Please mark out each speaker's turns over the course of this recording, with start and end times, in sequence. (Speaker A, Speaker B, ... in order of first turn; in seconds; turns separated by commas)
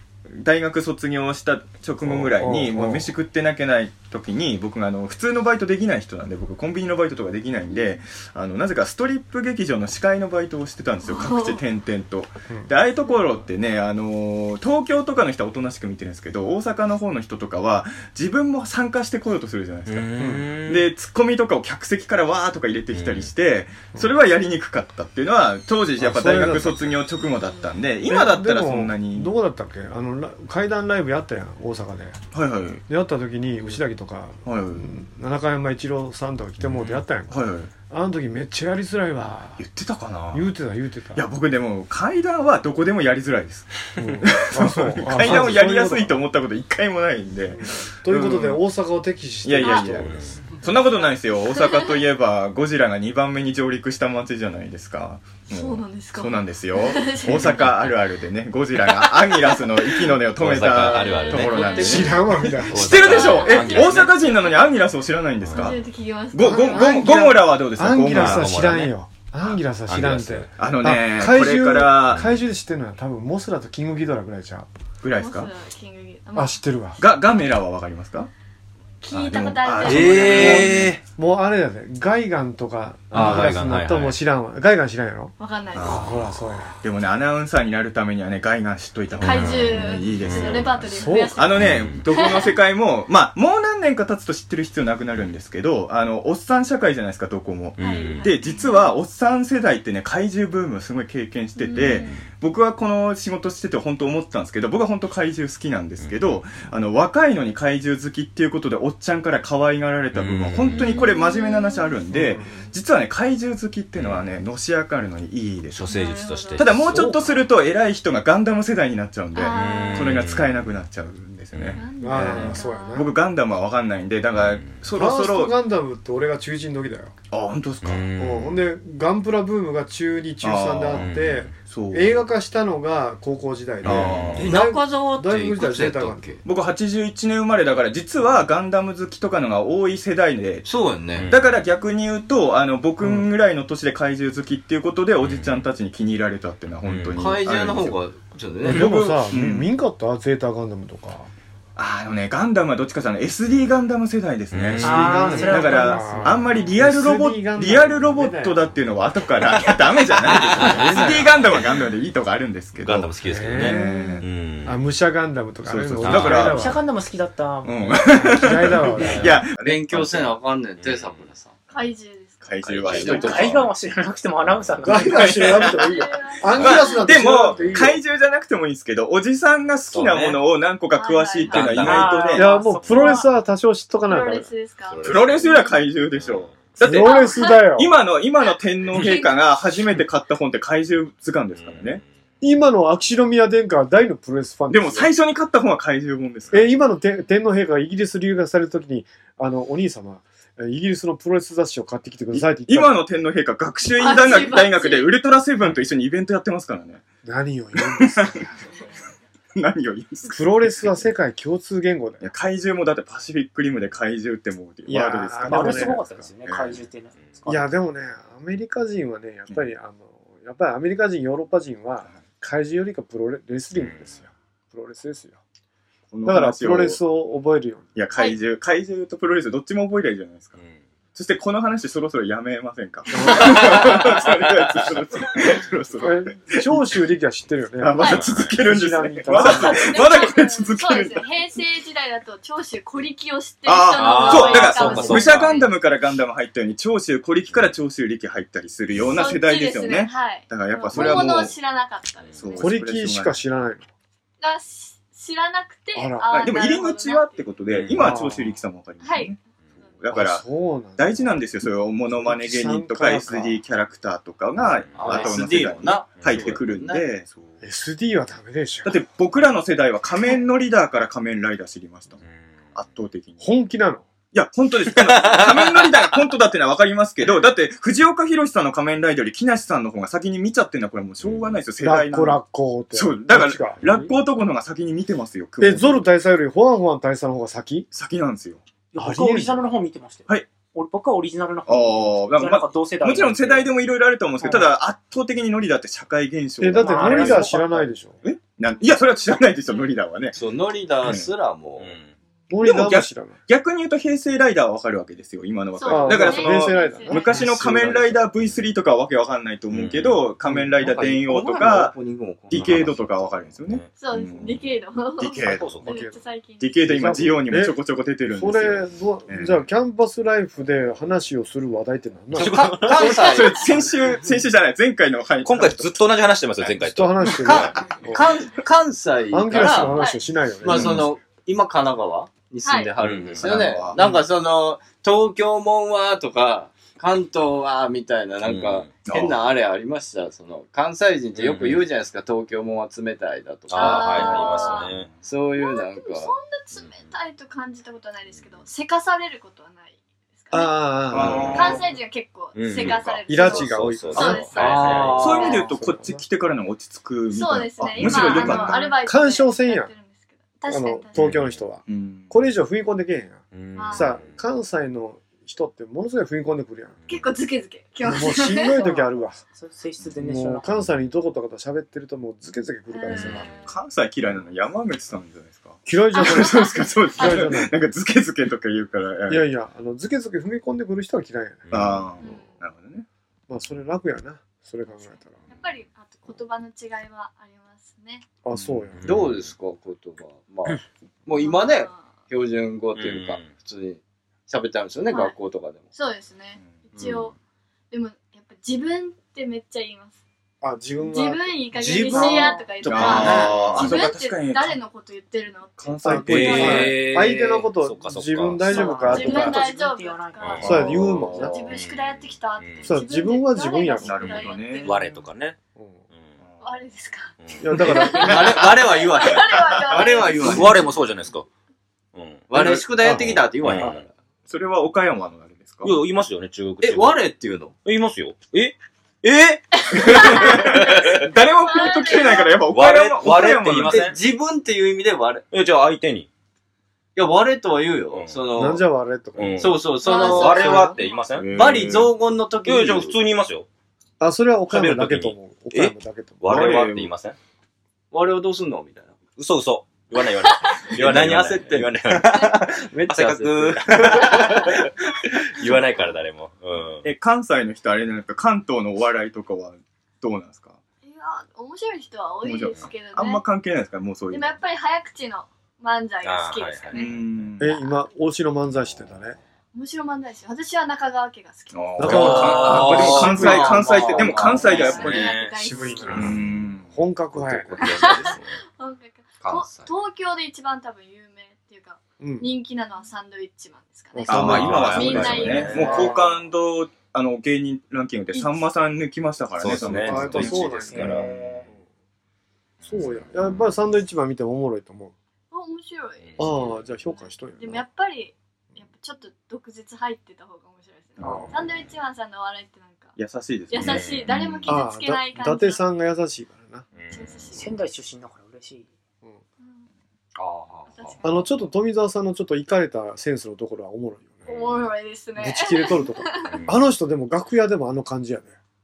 Speaker A: 0.3-20.1, Speaker B: 2.0-3.1, Speaker C: 11.0-11.6, Speaker D: 19.9-20.9, Speaker B: 20.2-20.5, Speaker A: 20.7-29.3, Speaker D: 22.9-23.3, Speaker B: 26.0-26.9, Speaker B: 28.1-32.2, Speaker A: 32.3-32.8, Speaker B: 32.9-39.6, Speaker A: 34.5-34.9, Speaker A: 36.7-37.7, Speaker A: 39.6-40.5, Speaker B: 40.3-41.3, Speaker A: 41.1-48.6, Speaker B: 44.0-46.2, Speaker B: 47.5-50.3, Speaker A: 49.4-65.8, Speaker C: 49.6-49.9, Speaker D: 50.0-50.3, Speaker C: 55.5-57.7, Speaker D: 60.4-64.1, Speaker C: 60.9-61.7, Speaker E: 61.4-62.0, Speaker B: 61.8-63.2, Speaker C: 63.0-64.5, Speaker D: 65.4-65.8, Speaker C: 65.5-67.2, Speaker A: 66.3-68.5, Speaker B: 66.4-74.7, Speaker D: 68.1-70.5, Speaker A: 70.6-72.3, Speaker A: 75.0-75.5, Speaker C: 75.2-76.6, Speaker B: 76.3-77.0, Speaker A: 77.0-78.3, Speaker C: 79.0-80.7, Speaker A: 79.1-80.9, Speaker E: 79.9-81.0, Speaker D: 80.1-80.8, Speaker B: 80.2-86.8, Speaker D: 83.1-84.2, Speaker A: 83.1-83.6, Speaker C: 85.4-86.1, Speaker D: 85.8-86.3, Speaker A: 86.8-115.8, Speaker C: 89.1-92.5, Speaker D: 89.2-91.0, Speaker B: 90.9-91.4, Speaker D: 91.6-92.1, Speaker D: 97.8-98.3, Speaker C: 97.8-98.9, Speaker C: 101.6-102.2, Speaker D: 101.9-102.3, Speaker D: 106.0-106.4, Speaker D: 110.2-111.1, Speaker C: 110.7-112.0, Speaker B: 112.1-112.7, Speaker D: 114.0-114.3, Speaker D: 115.7-117.4, Speaker C: 115.9-116.7, Speaker A: 116.6-125.5, Speaker C: 119.3-120.2, Speaker D: 119.4-120.7, Speaker D: 121.5-121.8, Speaker C: 121.8-123.1, Speaker B: 122.0-123.1, Speaker D: 124.3-124.7, Speaker B: 125.0-127.1, Speaker A: 127.3-128.3, Speaker D: 127.8-128.6, Speaker B: 128.2-136.4, Speaker A: 130.4-131.1, Speaker D: 130.9-131.5, Speaker A: 131.7-132.1, Speaker D: 133.8-134.6, Speaker A: 133.8-134.5, Speaker E: 134.4-136.4, Speaker A: 136.4-140.7, Speaker E: 140.7-141.3, Speaker D: 141.1-141.6, Speaker A: 141.3-148.0, Speaker D: 145.2-145.6, Speaker D: 146.9-147.7, Speaker E: 147.2-149.2, Speaker B: 148.7-151.3, Speaker A: 149.3-149.7, Speaker A: 151.8-164.3, Speaker D: 154.5-155.3, Speaker F: 154.8-156.4, Speaker B: 154.9-158.6, Speaker D: 159.6-161.9, Speaker B: 160.3-161.3, Speaker E: 160.5-161.3, Speaker D: 162.8-164.8, Speaker B: 163.2-166.8, Speaker A: 165.6-166.8, Speaker D: 166.0-166.6, Speaker F: 166.3-169.4, Speaker A: 167.6-170.3, Speaker B: 168.4-169.4, Speaker D: 169.1-170.2, Speaker E: 169.6-171.5, Speaker D: 170.8-171.3, Speaker C: 171.7-172.4, Speaker A: 172.4-173.7, Speaker D: 172.6-173.7, Speaker E: 172.8-173.6, Speaker F: 173.0-175.5, Speaker D: 174.4-174.7, Speaker B: 174.8-178.0, Speaker A: 175.0-176.0, Speaker C: 175.3-177.1, Speaker A: 176.5-182.5, Speaker D: 176.6-176.9, Speaker D: 179.9-180.4, Speaker C: 180.9-181.7, Speaker D: 181.5-183.2, Speaker F: 181.8-183.2, Speaker B: 182.3-184.5, Speaker C: 184.1-185.8, Speaker D: 184.9-185.6, Speaker A: 185.0-192.0, Speaker D: 186.2-186.6, Speaker B: 186.8-187.9, Speaker C: 186.9-187.6, Speaker C: 188.9-189.3, Speaker D: 191.6-192.1, Speaker B: 192.4-195.1, Speaker A: 194.7-196.7, Speaker B: 196.5-203.0, Speaker A: 202.3-207.0, Speaker C: 203.9-205.1, Speaker B: 207.2-208.6, Speaker A: 207.8-208.4, Speaker A: 209.6-210.9, Speaker B: 210.3-212.3, Speaker A: 212.2-216.8, Speaker B: 214.9-216.0, Speaker F: 215.5-217.7, Speaker B: 217.5-225.4, Speaker D: 223.8-224.1, Speaker A: 226.1-227.0, Speaker B: 226.2-227.9, Speaker A: 228.0-230.6, Speaker A: 231.2-237.0, Speaker B: 233.1-233.9, Speaker D: 233.4-234.3, Speaker B: 236.0-240.0, Speaker A: 237.8-241.2, Speaker D: 238.1-238.6, Speaker C: 239.4-245.7, Speaker A: 243.7-251.5, Speaker D: 243.9-245.7, Speaker E: 244.8-245.2, Speaker C: 249.1-252.8, Speaker E: 250.9-251.3, Speaker A: 252.4-253.4, Speaker B: 252.6-253.9, Speaker C: 254.4-257.4, Speaker B: 255.9-256.3, Speaker A: 256.3-259.4, Speaker D: 257.7-258.2, Speaker B: 257.9-258.6, Speaker C: 259.0-259.4, Speaker A: 260.0-260.4, Speaker B: 260.1-261.4, Speaker A: 261.0-267.4, Speaker B: 262.1-263.6, Speaker D: 264.6-265.4, Speaker E: 264.9-267.1, Speaker D: 266.2-266.6, Speaker B: 267.6-269.0, Speaker A: 268.9-272.2, Speaker D: 272.2-272.8, Speaker A: 272.8-273.5, Speaker B: 273.4-274.1, Speaker A: 274.3-282.4, Speaker D: 275.1-276.2, Speaker B: 281.7-284.1, Speaker A: 282.9-286.1, Speaker B: 285.6-287.9, Speaker A: 287.9-288.6, Speaker F: 288.9-293.7, Speaker B: 289.0-289.6, Speaker A: 291.7-297.7, Speaker B: 294.4-294.7, Speaker B: 296.6-298.2, Speaker F: 296.8-297.6, Speaker A: 298.2-300.4, Speaker E: 300.3-301.9, Speaker A: 301.0-301.3, Speaker D: 301.8-302.1, Speaker B: 302.5-303.4, Speaker A: 302.6-311.9, Speaker C: 305.8-307.5, Speaker B: 305.9-308.0, Speaker E: 307.4-308.2, Speaker D: 309.7-310.3, Speaker E: 310.5-313.0, Speaker A: 312.5-314.6, Speaker D: 312.5-313.9, Speaker C: 314.0-316.7, Speaker A: 315.2-315.8, Speaker D: 315.4-315.9, Speaker B: 315.5-316.2, Speaker A: 316.6-319.6, Speaker B: 316.8-317.8, Speaker B: 318.3-323.1, Speaker D: 322.3-323.4, Speaker E: 322.6-323.7, Speaker A: 322.8-326.0, Speaker D: 325.4-327.8, Speaker A: 326.6-328.0, Speaker B: 326.8-328.3, Speaker E: 327.4-330.0, Speaker B: 329.3-331.1, Speaker C: 329.9-330.2, Speaker E: 330.6-346.3, Speaker A: 330.7-331.1, Speaker C: 332.6-332.9, Speaker D: 333.0-333.9, Speaker A: 333.4-334.0, Speaker B: 334.0-334.2, Speaker D: 338.4-339.0, Speaker A: 339.0-339.4, Speaker D: 341.4-341.9, Speaker D: 343.7-345.2, Speaker C: 343.7-344.9, Speaker C: 345.6-351.0, Speaker D: 348.3-348.6, Speaker B: 350.5-351.9, Speaker A: 351.1-351.8, Speaker D: 351.2-351.8, Speaker C: 351.5-355.6, Speaker D: 352.5-355.5, Speaker A: 352.7-353.2, Speaker B: 353.3-354.5, Speaker E: 354.5-355.7, Speaker A: 355.2-358.9, Speaker B: 355.4-356.2, Speaker C: 357.3-361.2, Speaker D: 358.0-358.6, Speaker B: 358.1-359.9, Speaker B: 360.7-367.0, Speaker A: 361.2-362.3, Speaker D: 363.5-364.4, Speaker C: 363.8-364.2, Speaker C: 367.1-368.8, Speaker B: 368.0-369.4, Speaker F: 368.8-370.8, Speaker B: 370.2-373.5, Speaker C: 372.9-373.8, Speaker A: 373.2-379.5, Speaker B: 375.9-377.7, Speaker C: 376.1-377.3, Speaker B: 379.3-381.7, Speaker D: 381.7-382.1, Speaker A: 381.7-383.1, Speaker C: 382.2-382.6, Speaker B: 383.5-385.5, Speaker C: 385.5-388.2, Speaker B: 388.4-389.2, Speaker D: 388.6-389.5, Speaker E: 389.0-395.9, Speaker C: 391.4-392.1, Speaker D: 392.9-393.6, Speaker C: 395.1-395.4, Speaker C: 395.9-397.4, Speaker D: 397.0-397.3, Speaker C: 397.9-400.2, Speaker B: 400.6-402.6, Speaker C: 401.1-406.9, Speaker E: 401.8-402.2, Speaker A: 402.2-404.8, Speaker D: 402.9-404.0, Speaker E: 402.9-403.5, Speaker A: 405.8-407.0, Speaker B: 406.0-409.6, Speaker D: 406.1-409.3, Speaker E: 406.8-407.6, Speaker F: 408.7-410.7, Speaker C: 408.7-410.9, Speaker D: 410.4-412.9, Speaker A: 410.6-411.5, Speaker B: 410.6-411.7, Speaker C: 411.4-415.0, Speaker B: 412.8-414.5, Speaker A: 414.0-415.0, Speaker D: 414.8-415.6, Speaker B: 415.8-416.0, Speaker D: 416.1-416.4, Speaker A: 416.4-416.7, Speaker C: 416.6-420.7, Speaker D: 417.4-418.5, Speaker B: 417.6-418.6, Speaker E: 418.2-420.9, Speaker D: 420.0-421.5, Speaker D: 422.1-424.0, Speaker E: 422.5-424.1, Speaker B: 423.0-423.9, Speaker A: 424.5-426.0, Speaker D: 425.8-427.3, Speaker E: 426.8-427.8, Speaker D: 427.8-431.3, Speaker C: 429.9-430.6, Speaker A: 430.1-434.1, Speaker C: 431.6-432.5, Speaker D: 432.7-434.2, Speaker E: 433.9-435.5, Speaker D: 435.5-436.3, Speaker E: 437.1-438.8, Speaker D: 438.1-438.6, Speaker B: 438.6-439.8, Speaker D: 439.4-441.9, Speaker E: 439.6-440.9, Speaker C: 440.0-441.3, Speaker B: 440.4-440.8, Speaker A: 441.4-442.1, Speaker E: 441.5-443.1, Speaker D: 442.6-443.7, Speaker B: 444.2-446.6, Speaker D: 444.7-447.4, Speaker A: 446.5-447.1, Speaker E: 446.6-446.9, Speaker E: 448.1-449.2, Speaker D: 449.4-454.9, Speaker E: 450.9-456.1, Speaker D: 455.5-457.1, Speaker A: 457.0-460.8, Speaker C: 461.0-463.4, Speaker A: 462.4-464.6, Speaker C: 464.3-467.1, Speaker D: 466.2-467.5, Speaker A: 466.9-467.7, Speaker B: 467.6-469.4, Speaker C: 467.7-468.0, Speaker C: 469.7-472.4, Speaker A: 471.7-475.4, Speaker B: 472.0-473.8, Speaker D: 472.0-478.6, Speaker E: 472.4-475.0, Speaker C: 474.3-476.3, Speaker B: 475.5-478.0, Speaker A: 476.1-476.9, Speaker E: 477.8-478.4, Speaker C: 477.8-486.1, Speaker E: 479.4-479.9, Speaker B: 482.2-482.5, Speaker B: 484.1-486.2, Speaker D: 484.3-486.2, Speaker A: 484.3-491.1, Speaker C: 488.3-488.6, Speaker D: 489.6-491.6, Speaker B: 489.6-491.2, Speaker F: 490.9-491.7, Speaker B: 492.8-495.1, Speaker C: 495.5-503.2, Speaker D: 496.3-496.6, Speaker B: 496.4-497.8, Speaker A: 501.2-501.5, Speaker B: 501.2-501.5, Speaker A: 503.2-504.5, Speaker C: 503.7-505.8, Speaker D: 503.8-504.6, Speaker B: 504.7-506.9, Speaker D: 506.9-507.6, Speaker C: 507.1-507.7, Speaker F: 507.5-508.9, Speaker C: 509.6-509.9, Speaker D: 510.4-511.2, Speaker C: 510.9-511.4, Speaker B: 511.2-514.8, Speaker C: 514.5-516.6, Speaker B: 515.4-518.6, Speaker D: 516.4-516.8